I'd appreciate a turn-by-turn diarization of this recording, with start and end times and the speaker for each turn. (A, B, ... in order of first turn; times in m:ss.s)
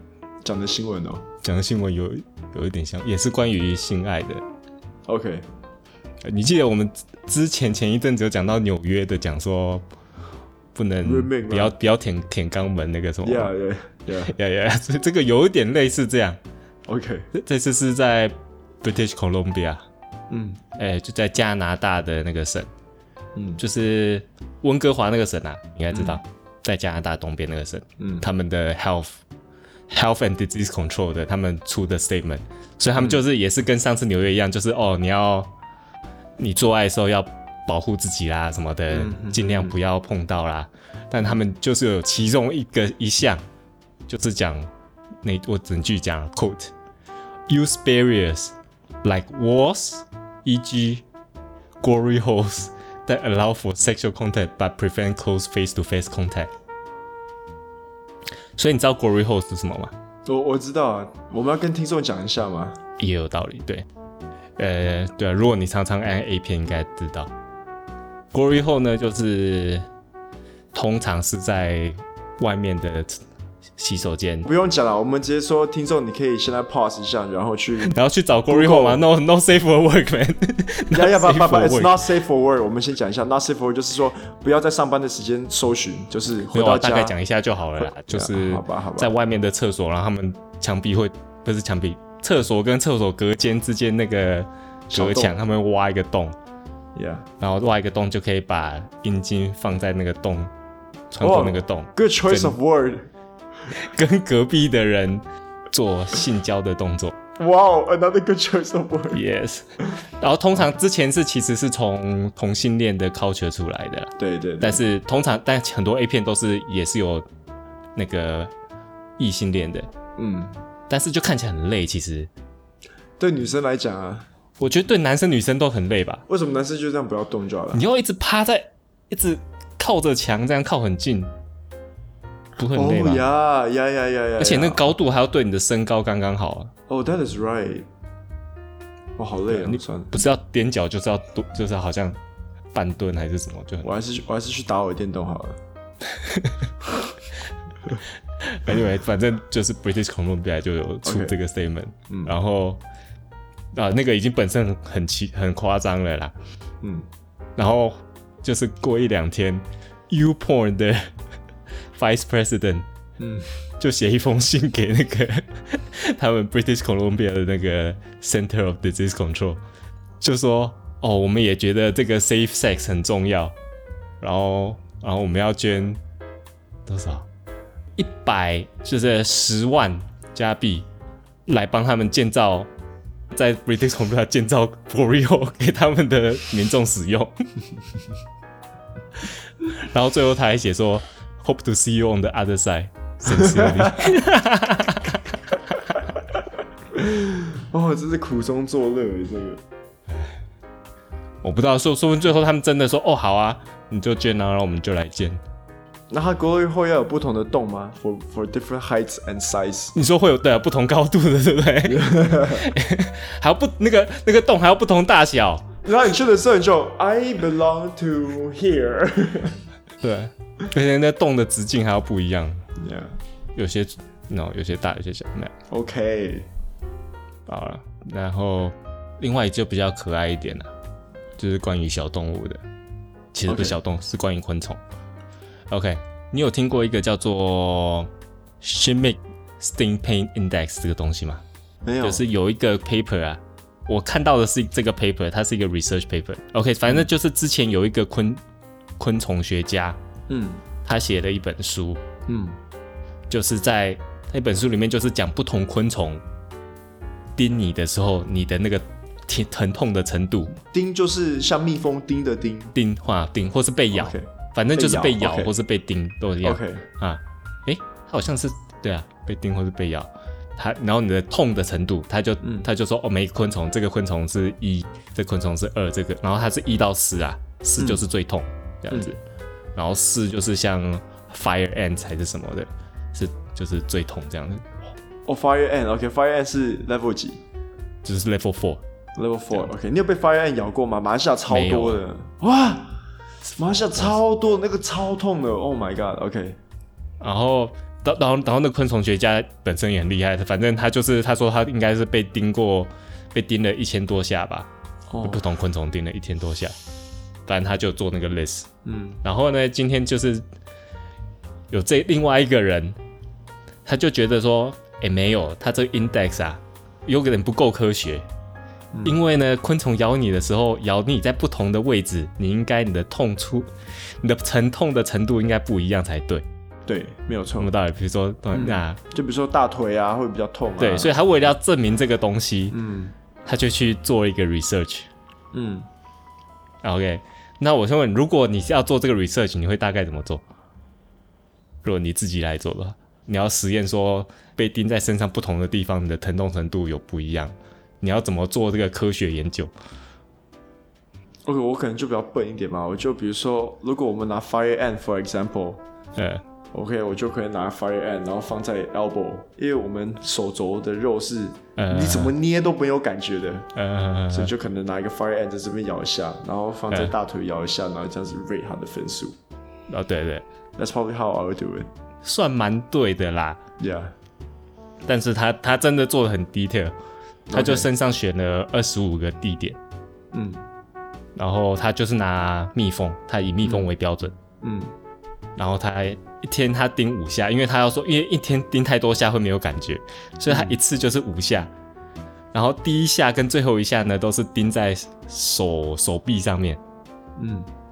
0:00.4-0:01.3 A
0:01.4-0:04.4 B
0:05.1-0:05.5 A
0:06.2-0:09.8 B
0:10.8-0:13.5 B
0:11.0-0:11.8 A
0:13.2-0:14.4 A
0:14.2-0:16.4 B
0:16.9-0:17.3 A
0:17.3-0:19.8 B
0:20.3-0:20.6 A
0:20.8-0:22.7 B
0:23.4-0:23.6 A
0:23.6-0:29.2 B
0:25.9-0:26.2 A
0:28.0-0:28.3 A
0:29.9-0:35.5 B
0:33.0-0:33.2 A
0:36.4-0:43.4 B
0:38.9-0:39.8 A
0:44.1-0:44.7 B
0:45.2-0:46.7 B
0:47.5-0:51.0 B
0:51.8-0:56.5 B
0:58.6-0:59.9 B
1:00.2-1:02.8 A
1:03.0-1:03.8 B
1:04.6-1:07.3 B
1:08.3-1:09.9 B
1:10.7-1:13.2 B
1:13.8-1:14.5 B
1:14.4-1:18.0 A
1:17.8-1:22.0 B
1:18.5-1:19.0 A
1:20.9-1:27.2 A
1:26.5-1:36.4 B
1:27.8-1:29.1 A
1:34.9-1:35.4 A
1:37.0-1:37.3 A
1:37.4-1:40.5 B
1:41.1-1:42.6 B
1:41.2-1:43.1 A
1:43.7-1:47.1 B
1:47.4-1:49.2 A
1:49.1-1:57.3 B
1:54.2-1:54.8 A
1:58.0-1:58.5 B
1:59.2-1:59.9 B
2:00.2-2:00.6 A
2:00.9-2:02.3 B
2:03.2-2:04.3 A
2:04.6-2:06.2 B
2:06.3-2:07.8 A
2:07.7-2:11.3 B
2:12.6-2:13.3 B
2:12.7-2:14.9 A
2:14.4-2:16.7 B
2:16.9-2:17.9 A
2:19.2-2:20.2 A
2:19.5-2:22.2 B
2:22.7-2:23.9 B
2:23.8-2:25.6 A
2:26.1-2:26.6 B
2:28.4-2:32.8 B
2:31.0-2:31.4 A
2:32.1-2:32.4 A
2:33.7-2:36.3 B
2:36.8-2:37.1 A
2:37.6-2:41.1 B
2:42.0-2:42.9 B
2:43.2-2:43.5 A
2:43.8-2:49.6 B
2:50.2-2:53.6 B
2:54.2-2:56.0 B
2:56.9-2:57.3 B
2:58.0-3:00.9 B
3:01.5-3:02.7 B
3:03.3-3:07.3 B
3:09.2-3:16.0 B
3:13.3-3:14.1 A
3:16.9-3:19.6 A
3:21.4-3:25.4 B
3:26.1-3:30.0 A
3:29.9-3:35.7 B
3:31.8-3:32.7 A
3:35.8-3:39.6 A
3:40.0-3:42.6 B
3:42.8-3:43.2 A
3:43.6-3:45.5 B
3:45.7-3:46.5 A
3:47.5-3:50.7 B
3:51.4-3:52.6 B
3:53.3-3:54.8 B
3:53.5-3:53.8 A
3:55.7-4:01.4 B
4:01.8-4:02.2 A
4:02.0-4:08.4 B
4:09.0-4:10.0 B
4:10.3-4:10.6 A
4:10.8-4:12.0 B
4:12.3-4:12.6 A
4:13.3-4:16.2 B
4:17.4-4:20.6 B
4:20.7-4:22.7 A
4:22.7-4:39.2 B
4:23.9-4:25.5 A
4:26.4-4:26.9 A
4:32.4-4:32.7 A
4:37.8-4:38.0 A
4:39.8-4:44.7 B
4:45.3-4:47.4 A
4:48.0-4:48.8 B
4:49.2-4:56.6 A
4:51.5-4:52.0 B
4:57.2-5:04.7 B
5:05.1-5:05.4 A
5:05.2-5:06.8 B
5:07.5-5:08.7 B
5:08.8-5:09.2 A
5:09.2-5:10.4 B
5:11.7-5:13.0 B
5:13.9-5:18.3 B
5:18.9-5:19.2 A
5:19.0-5:23.7 B
5:24.2-5:26.4 B
5:26.9-5:27.7 A
5:27.6-5:29.0 B
5:28.5-5:31.2 A
5:30.8-5:32.8 B
5:32.7-5:33.2 A
5:33.4-5:35.1 B
5:35.5-5:35.9 A
5:36.8-5:40.4 B
5:41.8-5:49.7 B
5:51.5-5:55.8 A
5:56.2-5:56.4 B
5:56.7-6:03.7 A
6:01.8-6:02.3 B
6:03.8-6:04.5 B
6:04.3-6:09.4 A
6:09.9-6:10.4 B
6:10.8-6:11.9 A
6:12.2-6:13.6 B
6:13.8-6:14.1 A
6:15.1-6:17.0 B
6:17.5-6:17.9 A
6:17.5-6:19.8 B
6:20.3-6:20.6 A
6:21.4-6:24.3 B
6:23.6-6:23.9 A
6:24.6-6:24.9 A
6:25.6-6:31.7 B
6:30.5-6:30.8 A
6:32.5-6:36.8 B
6:37.4-6:37.7 A